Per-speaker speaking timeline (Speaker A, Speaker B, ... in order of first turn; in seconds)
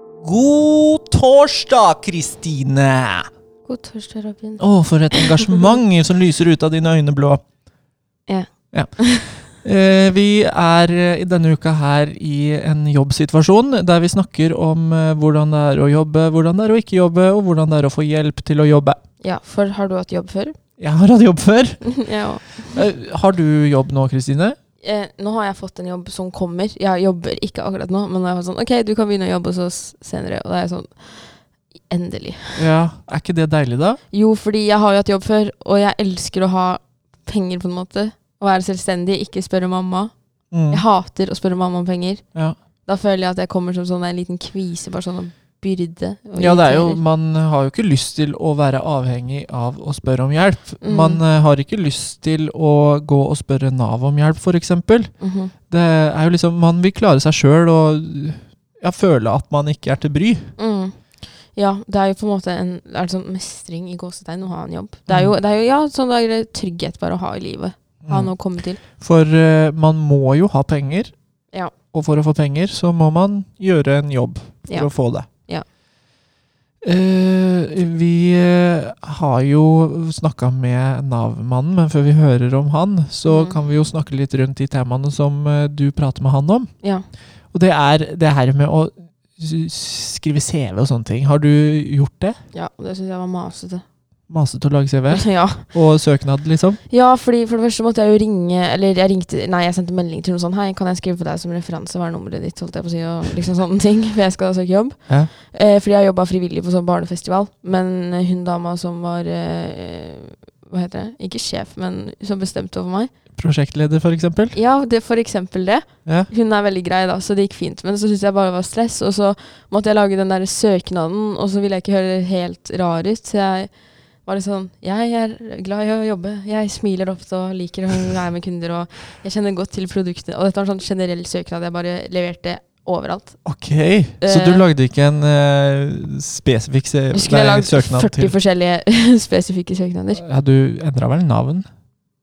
Speaker A: 0.2-3.3, 4.6-7.4, 8.7-19.0, 20.8-21.9, 22.7-24.6, 32.6-34.0, 40.5-40.8, 46.4-55.1, 55.7-60.5, 65.1-65.3, 68.0-68.3, 68.8-71.1, 71.9-75.2, 76.8-86.7, 87.5-92.4, 94.3-96.8, 113.4-114.6, 133.4-138.3, 140.1-141.7
Speaker B: 3.6-4.6, 9.0-9.4, 19.2-20.6, 21.8-22.8, 24.8-31.4, 31.9-32.6, 34.1-40.1, 40.7-42.2, 42.9-47.0, 50.8-51.2, 55.2-55.5, 60.6-61.0, 61.5-68.8, 74.7-75.6, 83.3-83.6, 92.5-93.8, 95.1-95.7, 96.9-113.1, 114.5-123.7, 124.2-133.4, 134.2-134.7, 137.1-140.2